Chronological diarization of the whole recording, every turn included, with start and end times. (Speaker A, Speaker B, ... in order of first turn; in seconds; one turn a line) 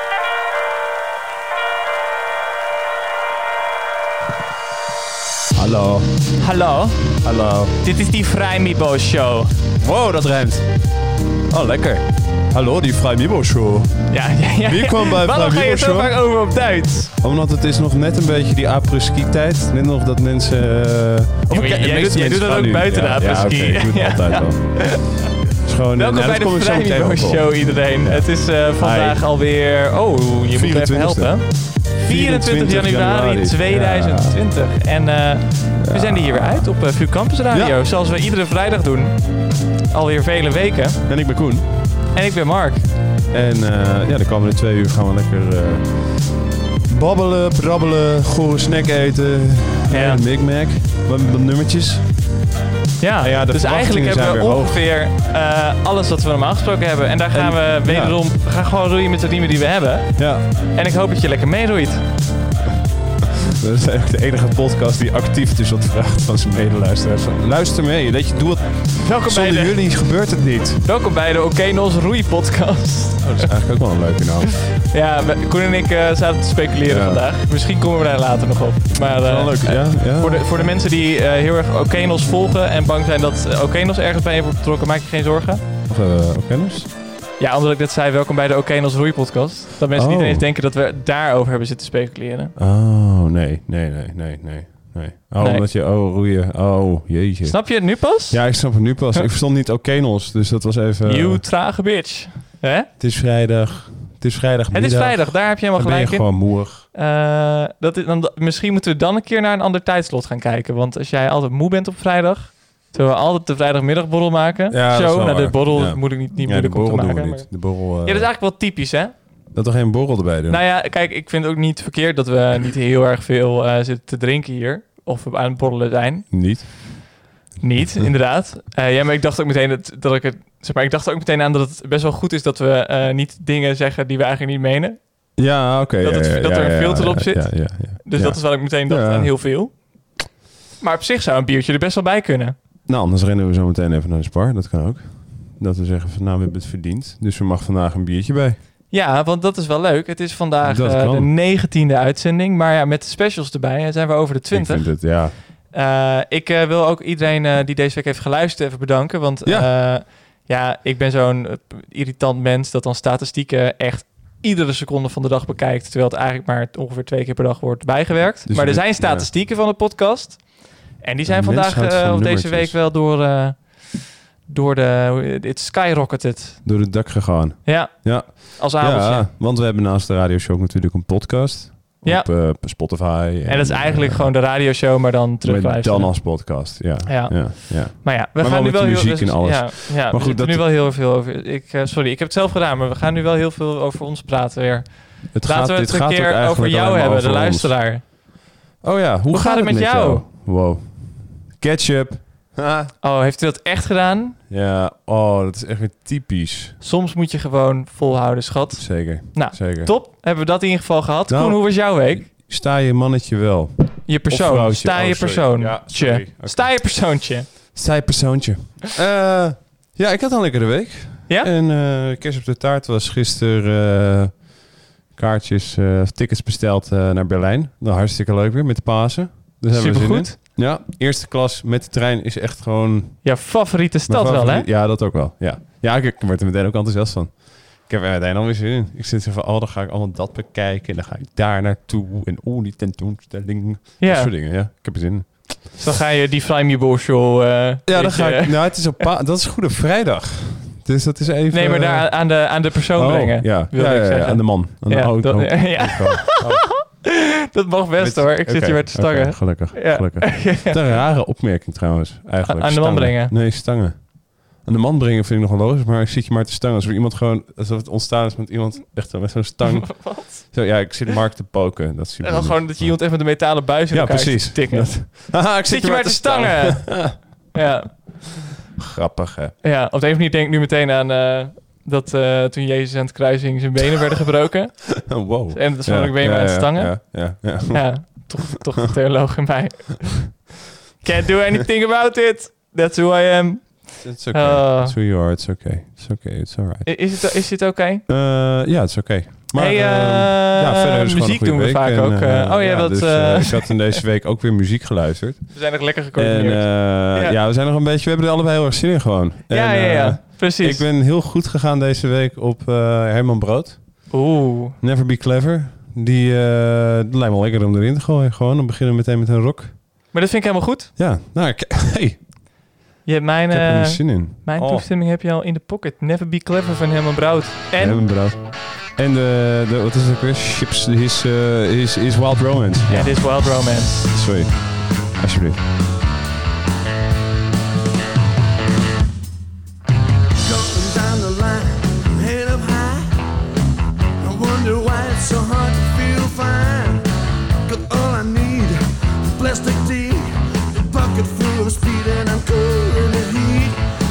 Speaker A: 5.5-6.3
Speaker B: 6.4-7.1
Speaker A: 7.2-7.7
Speaker B: 7.8-9.5
Speaker A: 9.8-10.7
Speaker A: 11.5-16.2
Speaker B: 14.1-17.1
Speaker A: 17.2-29.3
Speaker B: 21.5-25.3
Speaker B: 26.0-41.2
Speaker A: 30.5-34.4
Speaker A: 35.8-37.8
Speaker A: 41.1-42.0
Speaker B: 42.1-42.9
Speaker A: 43.3-52.3
Speaker B: 49.9-50.2
Speaker B: 53.0-62.0
Speaker A: 53.2-54.8
Speaker A: 57.3-58.2
Speaker A: 60.2-60.4
Speaker A: 63.5-70.8
Speaker B: 69.0-70.0
Speaker B: 70.8-73.5
Speaker A: 73.2-74.6
Speaker B: 74.9-85.6
Speaker A: 76.9-77.2
Speaker A: 79.2-80.7
Speaker A: 85.9-86.9
Speaker B: 87.4-92.5
Speaker A: 89.9-90.5
Speaker A: 92.6-101.5
Speaker B: 95.4-95.7
Speaker B: 97.4-99.2
Speaker B: 101.0-102.9
Speaker A: 103.0-106.9
Speaker B: 104.7-119.2
Speaker A: 114.7-118.3
Speaker A: 119.5-120.6
Speaker B: 120.5-126.7
Speaker A: 126.3-127.2
Speaker B: 127.6-135.4
Speaker A: 135.4-139.6
Speaker B: 136.0-139.9
Speaker B: 140.8-142.6
Speaker A: 142.9-148.6
Speaker B: 148.9-176.7
Speaker A: 150.6-151.3
Speaker A: 154.5-155.4
Speaker A: 159.4-159.7
Speaker A: 168.5-169.3
Speaker A: 171.3-172.8
Speaker A: 176.6-184.4
Speaker B: 177.7-179.3
Speaker B: 182.0-182.3
Speaker B: 183.5-198.0
Speaker A: 185.4-190.7
Speaker A: 195.3-198.1
Speaker A: 198.8-202.9
Speaker B: 199.3-200.2
Speaker B: 203.0-204.4
Speaker A: 204.5-206.8
Speaker B: 206.8-212.3
Speaker A: 208.8-209.9
Speaker A: 211.3-233.5
Speaker B: 214.1-217.8
Speaker B: 229.7-230.4
Speaker B: 233.2-234.7
Speaker A: 234.1-245.8
Speaker B: 244.0-244.3
Speaker B: 245.8-249.0
Speaker A: 247.9-256.8
Speaker B: 251.5-261.0
Speaker A: 258.0-277.5
Speaker B: 262.4-263.4
Speaker B: 269.7-270.4
Speaker B: 272.2-278.0
Speaker A: 278.8-279.6
Speaker B: 279.6-290.4
Speaker A: 285.1-288.3
Speaker B: 291.0-295.0
Speaker A: 294.0-297.1
Speaker B: 296.9-298.1
Speaker A: 298.1-314.2
Speaker B: 299.5-304.0
Speaker B: 305.6-307.4
Speaker B: 309.5-310.9
Speaker B: 314.1-314.8
Speaker A: 314.8-320.0
Speaker B: 320.1-320.9
Speaker A: 321.0-322.3
Speaker B: 323.1-328.2
Speaker A: 323.5-324.9
Speaker A: 327.8-335.7
Speaker B: 332.9-334.1
Speaker C: 340.4-343.1
Speaker C: 344.2-347.0
Speaker C: 347.7-353.8